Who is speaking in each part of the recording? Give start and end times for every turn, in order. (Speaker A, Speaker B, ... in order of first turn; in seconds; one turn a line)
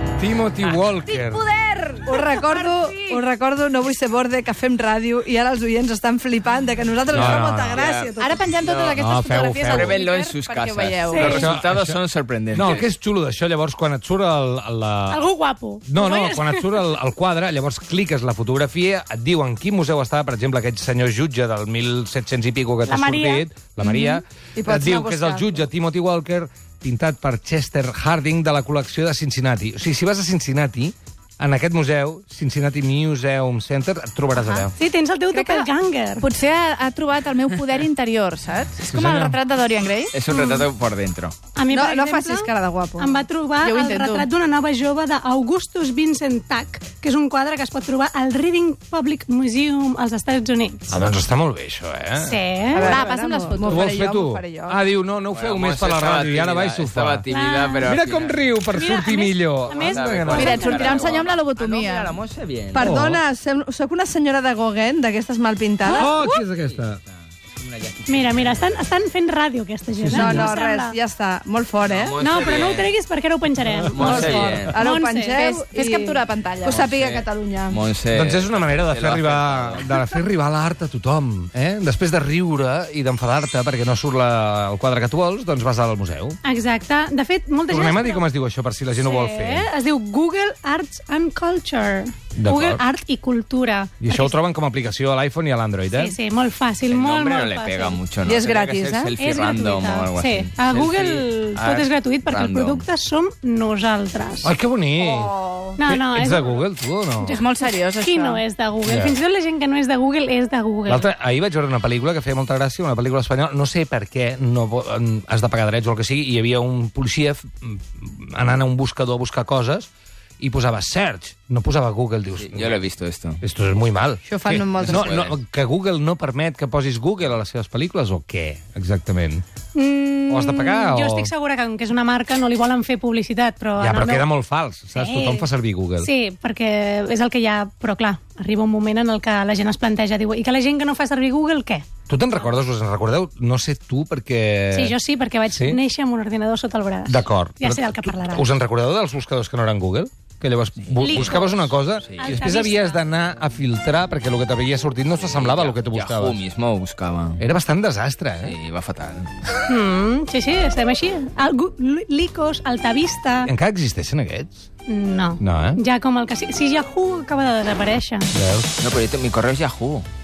Speaker A: 0.2-1.4
Speaker B: 1.0-3.2
Speaker C: 2.0-8.5
Speaker A: 7.1-7.8
Speaker D: 7.1-9.0
Speaker B: 8.2-11.5
Speaker A: 9.0-10.0
Speaker D: 9.7-12.9
Speaker A: 11.1-15.2
Speaker E: 15.1-16.9
Speaker A: 15.9-34.7
Speaker E: 22.9-23.5
Speaker C: 24.6-25.6
Speaker E: 34.7-36.3
Speaker B: 35.3-35.7
Speaker B: 36.2-40.2
Speaker A: 38.9-39.4
Speaker D: 40.1-41.4
Speaker E: 41.6-51.0
Speaker C: 41.7-43.2
Speaker B: 43.6-44.3
Speaker A: 50.9-52.4
Speaker E: 52.2-53.0
Speaker C: 52.7-54.8
Speaker B: 52.8-53.8
Speaker A: 53.7-57.3
Speaker D: 55.3-58.4
Speaker E: 57.3-57.9
Speaker A: 57.8-60.7
Speaker E: 58.7-61.3
Speaker D: 59.7-62.9
Speaker B: 60.3-62.2
Speaker C: 62.7-66.1
Speaker A: 62.8-63.2
Speaker A: 65.9-67.0
Speaker B: 66.0-66.3
Speaker D: 66.7-68.5
Speaker E: 68.1-71.0
Speaker A: 70.0-70.4
Speaker C: 70.1-72.2
Speaker D: 71.9-72.9
Speaker E: 72.2-75.6
Speaker D: 73.9-74.8
Speaker C: 73.9-77.8
Speaker B: 75.3-76.8
Speaker D: 76.7-79.9
Speaker A: 78.1-86.4
Speaker E: 86.4-88.2
Speaker A: 87.7-89.7
Speaker E: 89.0-94.4
Speaker A: 92.4-92.8
Speaker A: 94.0-96.2
Speaker E: 95.9-98.0
Speaker D: 96.9-102.8
Speaker C: 98.2-99.1
Speaker E: 99.2-104.5
Speaker A: 104.4-105.3
Speaker C: 105.0-105.8
Speaker E: 105.8-111.1
Speaker A: 105.9-107.4
Speaker B: 107.2-108.4
Speaker A: 108.8-109.2
Speaker A: 110.9-119.9
Speaker A: 120.4-122.8
Speaker D: 122.4-123.4
Speaker A: 123.4-129.4
Speaker C: 124.2-125.1
Speaker D: 124.7-125.4
Speaker E: 129.8-134.3
Speaker A: 130.3-131.3
Speaker A: 133.8-136.1
Speaker E: 134.9-135.5
Speaker E: 136.0-141.9
Speaker A: 142.1-145.0
Speaker E: 144.7-148.5
Speaker A: 145.5-145.8
Speaker A: 147.1-156.4
Speaker D: 150.9-151.4
Speaker E: 151.0-153.0
Speaker D: 152.0-152.4
Speaker D: 155.1-157.4
Speaker A: 157.4-158.6
Speaker D: 158.4-159.3
Speaker E: 159.7-163.5
Speaker A: 163.4-164.7
Speaker E: 164.9-168.3
Speaker A: 165.4-165.8
Speaker A: 168.3-168.7
Speaker D: 168.8-170.1